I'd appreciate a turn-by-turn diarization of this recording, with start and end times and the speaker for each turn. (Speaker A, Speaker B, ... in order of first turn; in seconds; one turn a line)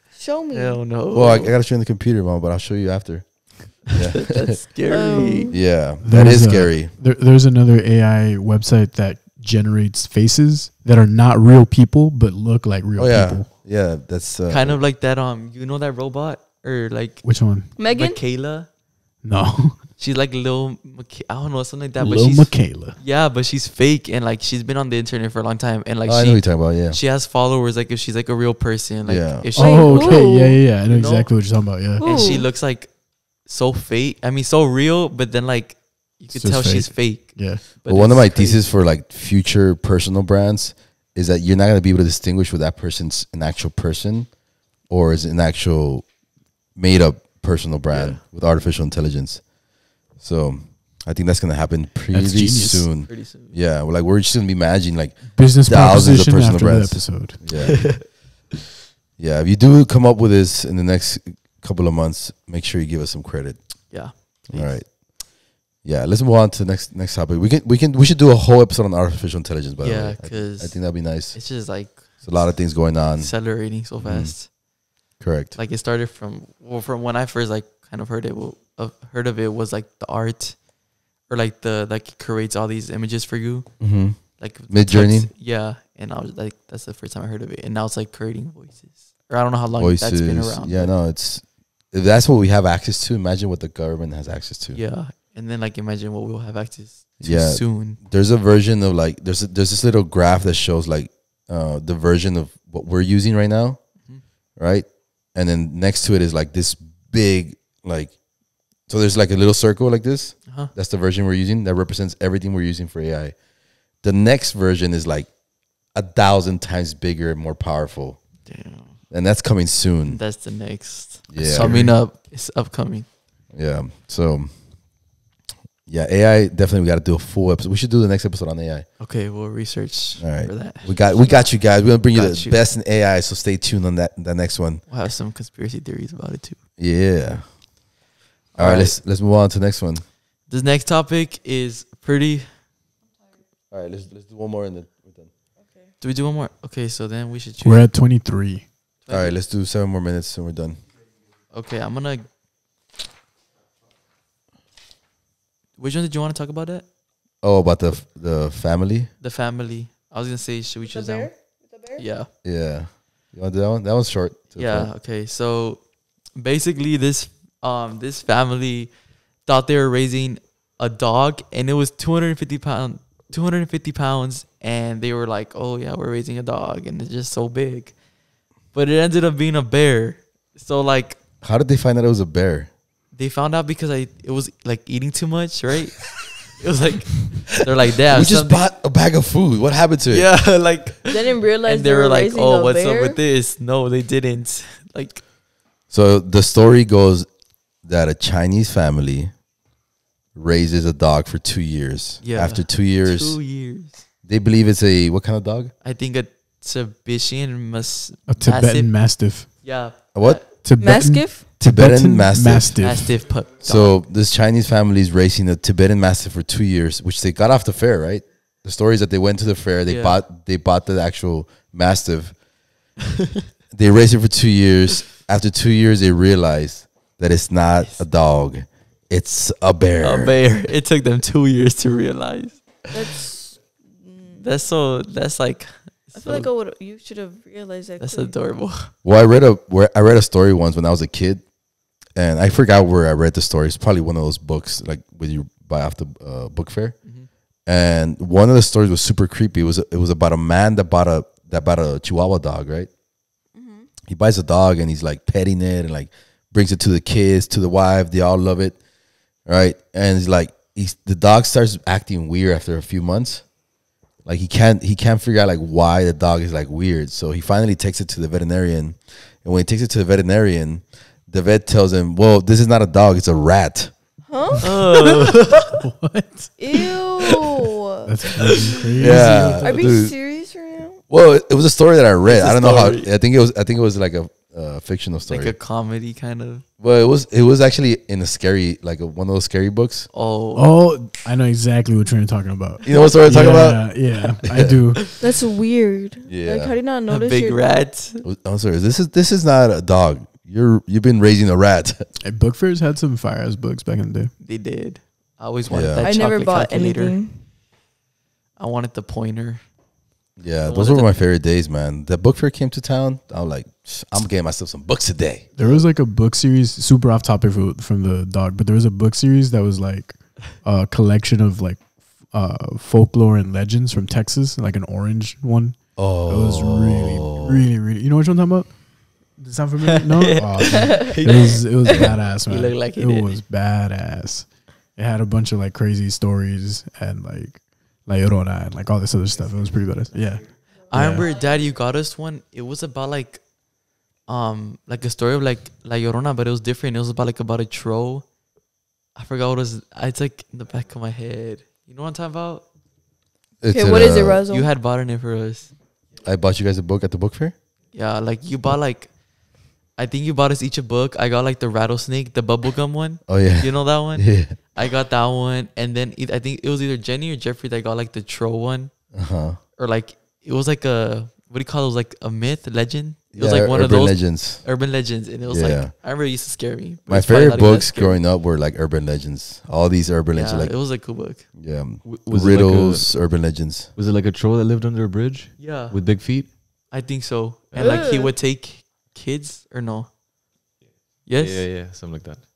Speaker A: 0.1-0.8
Speaker B: 0.5-1.5
Speaker C: 1.1-4.6
Speaker B: 3.9-5.5
Speaker A: 4.9-5.6
Speaker C: 5.5-6.9
Speaker D: 6.0-13.5
Speaker C: 13.0-14.8
Speaker B: 14.5-18.7
Speaker D: 17.2-17.7
Speaker A: 17.8-18.2
Speaker D: 19.2-19.8
Speaker B: 20.0-38.6
Speaker D: 22.0-23.0
Speaker C: 26.1-27.0
Speaker C: 29.1-29.5
Speaker D: 29.5-32.0
Speaker A: 29.6-30.6
Speaker A: 32.0-32.5
Speaker D: 36.3-37.6
Speaker C: 37.9-46.1
Speaker C: 46.7-49.5
Speaker B: 47.9-48.2
Speaker C: 50.1-58.0
Speaker D: 52.1-52.9
Speaker B: 53.0-53.5
Speaker D: 55.3-57.7
Speaker B: 57.6-58.0
Speaker C: 59.2-71.7
Speaker B: 63.9-64.8
Speaker B: 69.8-72.4
Speaker C: 72.2-73.4
Speaker B: 73.0-74.5
Speaker C: 74.0-74.3
Speaker C: 75.2-75.5
Speaker B: 75.5-80.6
Speaker B: 81.3-90.9
Speaker C: 83.8-85.3
Speaker C: 89.8-94.8
Speaker B: 94.7-98.0
Speaker C: 97.2-103.8
Speaker C: 104.6-108.2
Speaker C: 108.9-113.4
Speaker C: 114.0-115.3
Speaker C: 115.9-118.2
Speaker B: 118.4-119.0
Speaker C: 119.1-120.2
Speaker B: 120.1-123.0
Speaker C: 121.3-122.0
Speaker C: 123.5-124.5
Speaker C: 125.9-128.9
Speaker B: 129.0-132.7
Speaker C: 130.2-134.8
Speaker B: 134.9-136.6
Speaker C: 136.8-137.6
Speaker B: 138.5-139.0
Speaker C: 138.6-140.0
Speaker B: 140.5-142.5
Speaker C: 143.7-145.3
Speaker A: 145.6-145.9
Speaker B: 146.0-147.9
Speaker D: 147.6-148.7
Speaker B: 149.0-149.3
Speaker C: 149.1-150.8
Speaker B: 151.5-152.2
Speaker B: 155.8-156.8
Speaker C: 157.4-159.1
Speaker B: 159.2-161.3
Speaker A: 160.9-162.0
Speaker B: 162.0-162.3
Speaker C: 162.4-164.9
Speaker B: 164.6-165.8
Speaker B: 166.3-168.9
Speaker B: 169.4-177.9
Speaker B: 178.7-181.2
Speaker C: 181.4-182.7
Speaker B: 183.1-188.7
Speaker C: 188.1-190.3
Speaker B: 190.1-195.2
Speaker A: 191.1-193.2
Speaker C: 195.9-197.3
Speaker C: 197.8-199.3
Speaker C: 200.3-203.4
Speaker B: 202.2-204.0
Speaker C: 204.2-205.7
Speaker B: 205.8-210.5
Speaker D: 208.3-209.8
Speaker C: 210.1-210.4
Speaker D: 210.6-213.2
Speaker A: 210.8-211.4
Speaker C: 211.6-222.4
Speaker B: 212.8-214.0
Speaker B: 219.9-220.2
Speaker C: 223.7-230.3
Speaker B: 227.8-228.0
Speaker B: 230.0-232.9
Speaker A: 232.9-234.4
Speaker B: 234.4-236.5
Speaker A: 236.1-238.3
Speaker B: 238.0-238.9
Speaker C: 239.0-241.4
Speaker C: 242.1-247.0
Speaker B: 247.0-247.3
Speaker C: 247.7-252.9
Speaker A: 253.5-253.9
Speaker C: 254.1-258.8
Speaker C: 259.4-263.5
Speaker C: 264.2-273.9
Speaker A: 274.3-274.6
Speaker B: 274.6-275.8
Speaker D: 275.6-276.8
Speaker A: 276.6-278.1
Speaker D: 278.1-279.8
Speaker C: 279.0-280.1
Speaker A: 279.6-281.0
Speaker C: 281.1-285.5
Speaker B: 282.2-283.1
Speaker B: 285.3-286.6
Speaker C: 286.8-290.1
Speaker B: 290.1-290.7
Speaker D: 290.6-295.0
Speaker C: 292.8-294.8
Speaker A: 295.2-297.6
Speaker C: 296.3-296.7
Speaker B: 297.1-298.2
Speaker C: 298.2-302.1
Speaker D: 302.2-304.3
Speaker B: 304.4-307.2
Speaker C: 305.7-306.1
Speaker A: 306.0-307.4
Speaker B: 308.6-309.6
Speaker C: 310.4-315.5
Speaker B: 310.6-311.2
Speaker D: 315.6-341.3
Speaker C: 325.9-327.6
Speaker B: 330.0-333.4
Speaker B: 340.9-343.4
Speaker B: 344.3-348.3
Speaker B: 349.1-352.6
Speaker C: 353.6-354.4
Speaker A: 353.7-354.7
Speaker B: 354.5-355.7
Speaker C: 356.2-357.5
Speaker B: 357.9-359.1
Speaker B: 359.9-368.9
Speaker C: 363.3-364.6
Speaker C: 369.1-369.6
Speaker B: 369.8-378.2
Speaker C: 373.3-374.6
Speaker C: 375.5-375.9
Speaker C: 377.1-380.7
Speaker B: 380.3-381.5
Speaker C: 381.5-383.9
Speaker E: 382.0-383.2
Speaker E: 383.9-386.9
Speaker B: 385.6-390.1
Speaker E: 387.7-388.1
Speaker A: 387.8-388.3
Speaker E: 390.8-392.4
Speaker B: 391.2-391.7